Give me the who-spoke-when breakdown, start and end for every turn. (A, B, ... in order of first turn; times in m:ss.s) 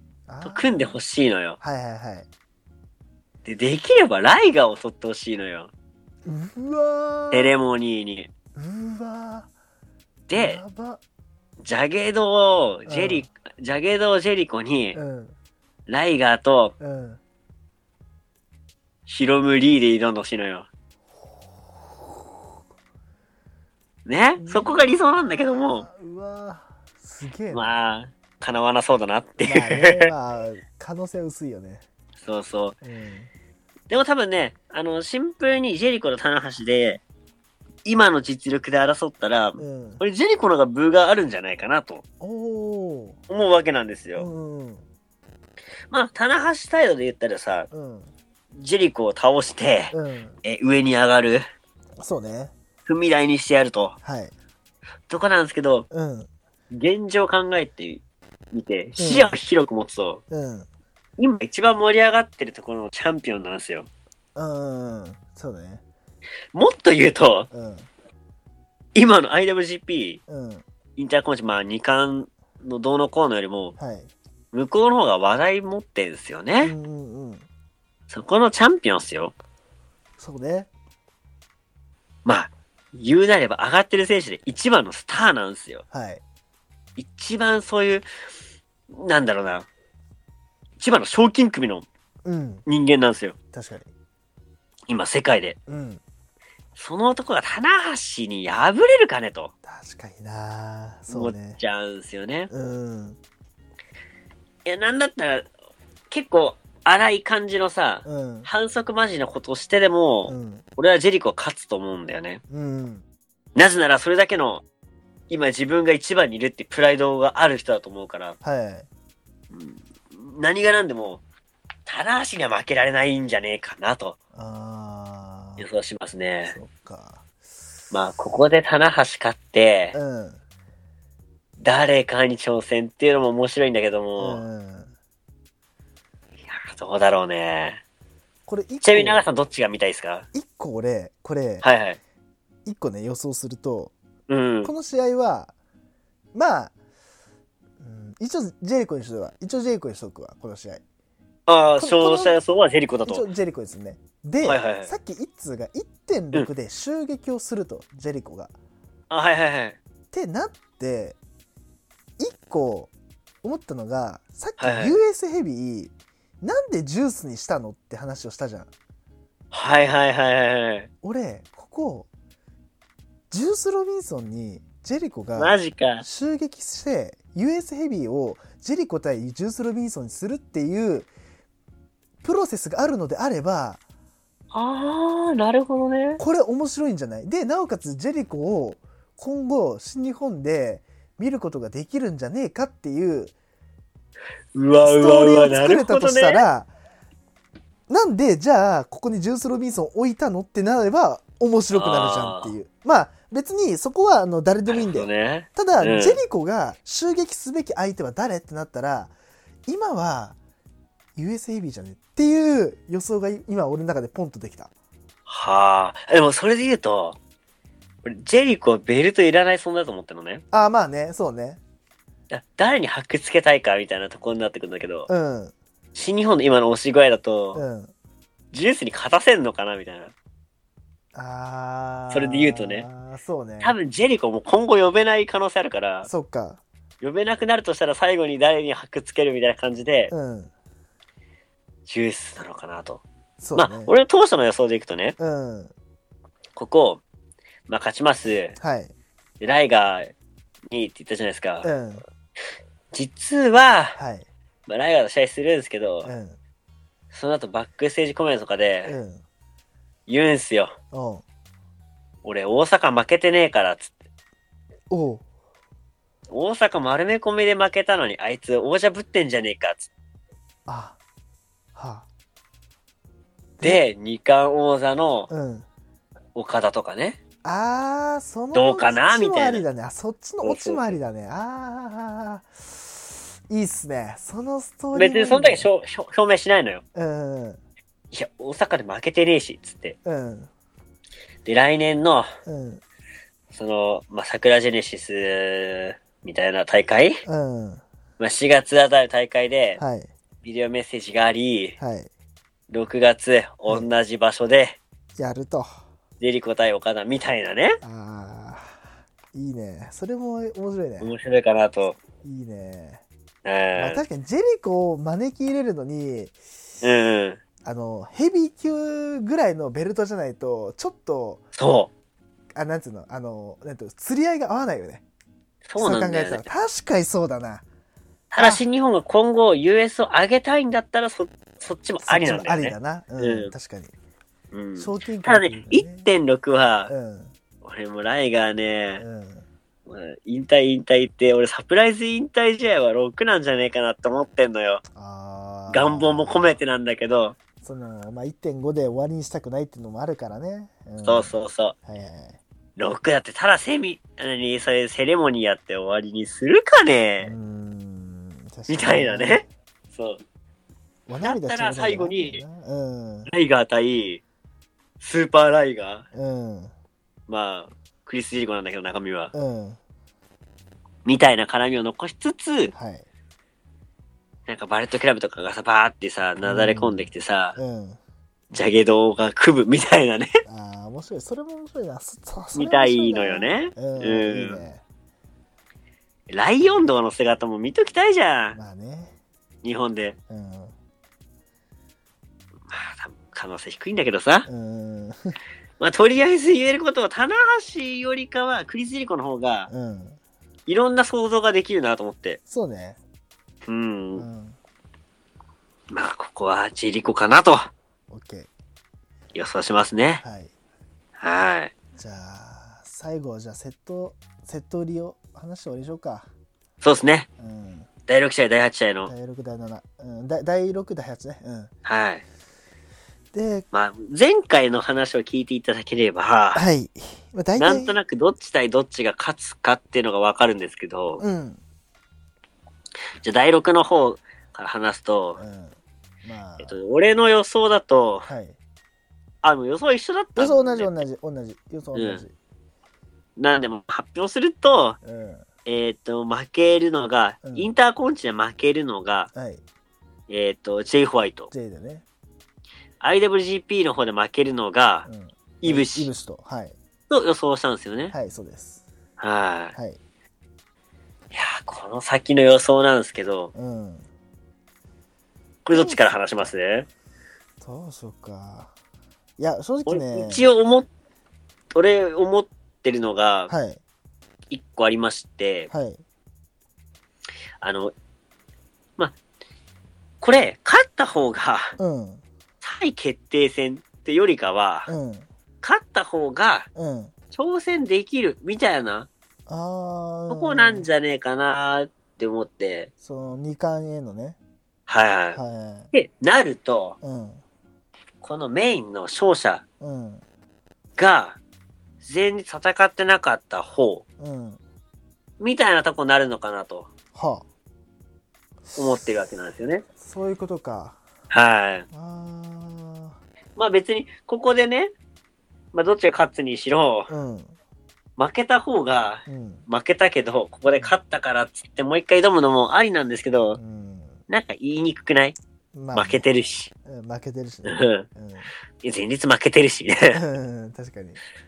0:00.3-0:01.0 A
0:00.4-0:01.6 B
0:01.6-0:02.3 A
0:03.4-0:05.7 B
0:06.2-0:07.6 A
0:07.3-0:08.3 B
0:08.5-0:09.5 A
0:10.3-0:10.6 B
0:10.4-0:11.0 A
0:11.6-0:15.0 B
0:12.9-0:13.3 A
0:14.9-0:15.4 A
0:15.9-0:16.7 B
0:16.8-0:17.2 A
0:19.1-0:20.6 B
0:24.0-0:25.9 B
0:24.4-0:24.9 A
0:25.7-0:27.7 A
0:27.5-0:30.1 B
0:29.4-0:31.8 A
0:32.2-0:32.8 B
0:32.8-0:33.3 A
0:33.9-0:37.0 B
0:37.8-0:42.0 B
0:39.6-0:40.0 A
0:42.2-0:43.2 A
0:43.3-0:44.3 B
0:44.2-0:44.8 A
0:45.9-0:47.7 B
0:47.7-0:48.1 A
0:48.5-0:51.4 B
0:49.9-0:50.4 A
0:52.0-0:52.5 A
0:52.9-0:53.9 B
0:54.0-0:54.3 A
0:55.1-0:55.9 B
0:55.9-0:56.3 A
0:56.7-1:00.2 B
0:59.0-0:59.4 A
1:00.3-1:00.7 A
1:01.2-1:03.9 B
1:04.4-1:05.8 A
1:06.5-1:07.5 B
1:07.5-1:07.9 A
1:08.9-1:10.2 B
1:10.3-1:10.6 A
1:11.0-1:13.8 B
1:13.8-1:14.1 A
1:14.5-1:16.7 B
1:16.6-1:17.5 A
1:18.1-1:19.3 B
1:20.2-1:20.7 A
1:22.2-1:25.8 B
1:25.9-1:26.2 A
1:27.0-1:28.0 B
1:28.9-1:29.7 B
1:30.8-1:31.9 B
1:32.2-1:32.6 A
1:32.6-1:33.4 B
1:33.5-1:33.9 A
1:34.9-1:35.6 B
1:35.7-1:36.0 A
1:36.8-1:39.5 B
1:39.6-1:41.6 A
1:41.1-1:42.5 B
1:42.5-1:43.2 A
1:44.6-1:45.5 B
1:46.1-1:52.4 B
1:48.0-1:48.5 A
1:50.2-1:50.6 A
1:52.5-1:53.0 A
1:53.5-1:54.6 B
1:55.3-1:58.4 B
1:58.4-1:58.9 A
1:59.5-2:01.2 B
2:01.9-2:04.2 B
2:04.4-2:05.6 A
2:05.6-2:06.6 B
2:06.5-2:07.2 A
2:07.9-2:10.0 B
2:09.9-2:10.4 A
2:11.6-2:14.4 B
2:14.2-2:14.9 A
2:16.5-2:17.8 B
2:18.5-2:19.2 A
2:18.8-2:20.3 B
2:20.3-2:21.6 A
2:21.6-2:22.0 B
2:22.6-2:23.9 A
2:24.3-2:24.7 B
2:24.6-2:25.5 A
2:26.3-2:26.7 A
2:27.8-2:30.8 A
2:31.5-2:33.2 B
2:31.8-2:32.4 A
2:33.0-2:38.5 A
2:34.4-2:34.9 B
2:39.1-2:39.8 B
2:40.1-2:41.2 A
2:42.2-2:42.9 A
2:43.4-2:48.7 A
2:44.6-2:45.0 B
2:49.5-2:50.9 B
2:51.0-2:52.1 A
2:53.3-3:01.1 A
2:55.4-2:56.0 B
3:02.2-3:03.8 A
3:04.5-3:06.2 B
3:06.2-3:13.3 A
3:14.5-3:16.4 B
3:14.8-3:16.7 A
3:17.9-3:29.1 A
3:21.7-3:22.5 B
3:24.7-3:26.2 B
3:29.7-3:30.4 A
3:31.2-3:34.7 A
3:35.3-3:37.2 B
3:38.0-3:40.4 B
3:40.5-3:41.6 A
3:42.3-3:45.1 B
3:45.1-3:45.5 A
3:45.9-3:47.6 B
3:47.5-3:47.9 A
3:48.5-3:50.1 B
3:51.1-3:53.8 A
3:52.1-3:52.9 B
3:53.6-3:56.1 B
3:56.0-3:56.6 A
3:57.0-4:00.1 B
4:00.1-4:00.5 A
4:01.9-4:03.0 B
4:03.4-4:03.9 A
4:03.5-4:05.2 B
4:05.2-4:05.7 A
4:06.6-4:07.0 B
4:07.7-4:08.6 B
4:08.6-4:08.9 A
4:09.4-4:10.1 B
4:10.7-4:11.7 B
4:11.6-4:12.0 A
4:12.9-4:14.0 B
4:14.0-4:14.3 A
4:14.7-4:16.1 B
4:16.0-4:16.4 A
4:17.1-4:18.9 B
4:18.9-4:19.2 A
4:20.1-4:20.8 B
4:20.9-4:21.2 A
4:22.2-4:23.9 B
4:24.9-4:25.2 A
4:26.3-4:29.9 B
4:30.7-4:31.0 A
4:31.8-4:32.0 A
4:33.6-4:35.3 B
4:35.3-4:35.6 A
4:36.4-4:37.2 B
4:37.4-4:45.7 A
4:38.5-4:39.6 B
4:40.4-4:41.0 B
4:44.9-4:46.8 B
4:46.9-4:47.6 A
4:48.1-4:50.0 B
4:50.0-4:50.5 A
4:51.4-4:52.3 B
4:52.4-4:52.8 A
4:53.5-4:57.2 B
4:57.2-4:57.8 A
4:58.2-4:59.8 B
4:59.8-5:00.1 A
5:00.4-5:01.8 B
5:01.8-5:02.1 A
5:02.7-5:04.8 B
5:05.2-5:05.8 A
5:06.2-5:07.8 B
5:07.8-5:08.8 A
5:09.3-5:11.1 A
5:11.0-5:12.0 B
5:12.2-5:13.0 A
5:13.4-5:14.0 B
5:13.8-5:16.4 A
5:16.8-5:17.4 B
5:17.6-5:21.4 A
5:21.6-5:21.9 B
5:22.6-5:25.0 A
5:25.6-5:26.4 B
5:25.8-5:27.6 A
5:28.3-5:33.5 B
5:28.4-5:28.6 A
5:32.0-5:33.9 A
5:34.5-5:36.9 B
5:34.8-5:36.1 A
5:36.9-5:37.3 A
5:37.6-5:39.0 B
5:39.0-5:39.4 A
5:39.9-5:44.8 B
5:44.9-5:46.6 A
5:45.7-5:47.4 B
5:47.6-5:51.3 A
5:51.0-5:51.7 B
5:51.9-5:52.4 A
5:52.8-5:57.3 B
5:57.2-5:59.4 A
5:58.7-6:00.2 B
6:01.1-6:03.3 A
6:01.2-6:02.4 B
6:03.3-6:04.2 B
6:05.0-6:06.1 B
6:06.1-6:06.7 A
6:07.3-6:09.3 B
6:09.3-6:09.8 A
6:11.0-6:12.7 B
6:12.7-6:13.1 A
6:14.5-6:17.6 B
6:16.4-6:18.0 A
6:18.5-6:20.3 B
6:20.4-6:24.8 A
6:22.6-6:24.6 B
6:26.3-6:28.6 B
6:28.5-6:29.1 A
6:29.6-6:30.2 B
6:30.3-6:30.7 A
6:32.7-6:34.5 B
6:34.4-6:35.4 A
6:35.8-6:39.7 B
6:39.7-6:40.2 A
6:40.7-6:42.4 B
6:42.5-6:43.0 A
6:43.6-6:44.2 B
6:44.2-6:44.6 A
6:45.9-6:47.7 B
6:48.1-6:48.5 A
6:49.3-6:50.2 B
6:50.2-6:50.5 A
6:51.2-6:51.7 B
6:52.0-6:56.3 A
6:56.8-6:57.3 B
6:57.4-6:57.9 A
6:58.1-6:59.1 B
6:59.1-7:01.7 A
7:01.8-7:02.2 B
7:03.3-7:03.6 A
7:03.7-7:06.6 B
7:06.5-7:08.0 A
7:07.6-7:11.2 B
7:11.2-7:11.6 A
7:13.2-7:15.4 B
7:15.4-7:16.8 A
7:16.6-7:18.3 B
7:18.2-7:18.6 A
7:19.4-7:20.9 B
7:20.4-7:22.3 A
7:21.9-7:22.2 B
7:23.4-7:25.0 B
7:25.0-7:25.4 A
7:25.6-7:29.3 B
7:27.4-7:27.7 A
7:29.3-7:29.6 A
7:30.3-7:31.5 B
7:31.5-7:32.0 A
7:33.0-7:35.1 B
7:35.1-7:36.7 A
7:35.6-7:36.1 B
7:37.1-7:38.1 B
7:38.1-7:38.8 A
7:39.2-7:39.7 B
7:39.7-7:40.0 A
7:41.3-7:43.5 B
7:43.5-7:44.1 A
7:45.6-7:46.9 B
7:45.7-7:46.5 A
7:47.6-7:48.7 A
7:49.4-7:50.5 A
7:49.9-7:50.9 B
7:51.7-7:53.5 B
7:53.5-7:53.8 A
7:54.5-7:55.7 B
7:55.7-7:56.0 A
7:57.6-7:57.9 B
8:00.2-8:01.7 B
8:01.8-8:02.2 A
8:02.6-8:04.9 B
8:04.9-8:05.2 A
8:05.6-8:06.7 B
8:06.7-8:07.1 A
8:07.3-8:09.1 B
8:09.5-8:10.9 A
8:10.3-8:12.9 B
8:13.0-8:14.4 A
8:14.9-8:15.4 B
8:15.3-8:15.9 A
8:15.9-8:17.0 B
8:17.0-8:17.4 A
8:18.2-8:19.6 B
8:19.8-8:20.2 A
8:21.0-8:21.4 B
8:22.0-8:24.0 B
8:24.2-8:24.6 A
8:25.4-8:26.9 B
8:27.1-8:27.4 A
8:28.7-8:29.8 B
8:30.0-8:31.0 A
8:31.3-8:31.9 B
8:31.9-8:33.2 A
8:33.6-8:34.9 B
8:35.7-8:37.1 B
8:37.1-8:37.6 A
8:38.2-8:43.6 B
8:39.3-8:39.6 A
8:43.6-8:44.2 A
8:44.3-8:45.4 B
8:45.7-8:46.2 A
8:45.9-8:46.7 B
8:46.8-8:48.5 A
8:47.6-8:48.1 B
8:48.8-8:50.2 B
8:50.1-8:51.2 A